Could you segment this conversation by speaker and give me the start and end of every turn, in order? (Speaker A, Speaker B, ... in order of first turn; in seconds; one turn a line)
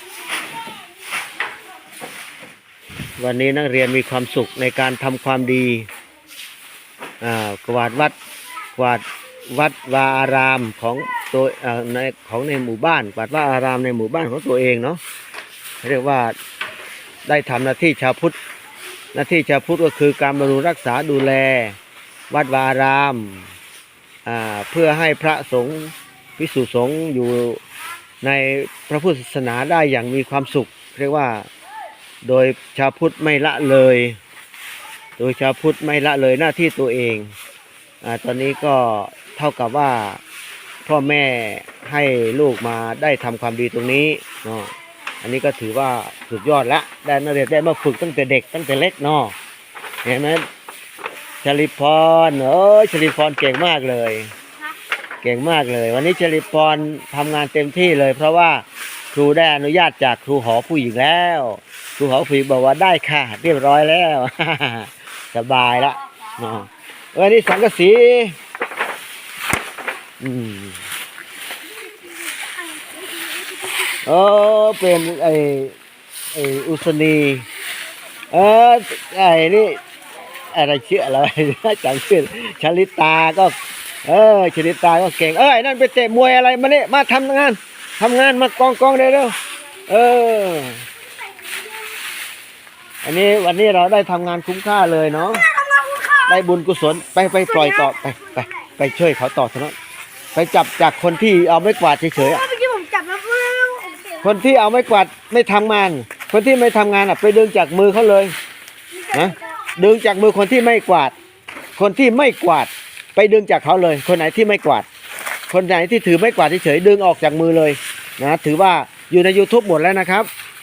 Speaker A: 3.2-5.9
Speaker A: 7.2-8.2
Speaker A: 8.8-15.0
Speaker A: 15.8-16.4
Speaker A: 17.3-18.4
Speaker A: 19.1-21.8
Speaker A: 22.3-23.5
Speaker A: 24.2-27.6
Speaker A: 28.2-31.5
Speaker A: 32.2-34.2
Speaker A: 35.2-37.3
Speaker A: 38.0-40.2
Speaker A: 40.9-49.4
Speaker A: 50.0-50.5
Speaker A: 51.4-54.3
Speaker A: 55.2-68.4
Speaker A: 70.2-70.8
Speaker A: 74.0-75.8
Speaker A: 76.3-77.5
Speaker A: 78.3-79.8
Speaker A: 80.5-89.4
Speaker A: 89.9-90.8
Speaker A: 93.0-95.5
Speaker B: 95.3-96.4
Speaker A: 96.3-99.8
Speaker B: 97.5-98.7
Speaker A: 100.3-102.5
Speaker B: 102.2-104.4
Speaker A: 104.2-108.3
Speaker B: 108.9-109.6
Speaker A: 109.1-111.1
Speaker A: 111.8-114.9
Speaker A: 115.5-120.3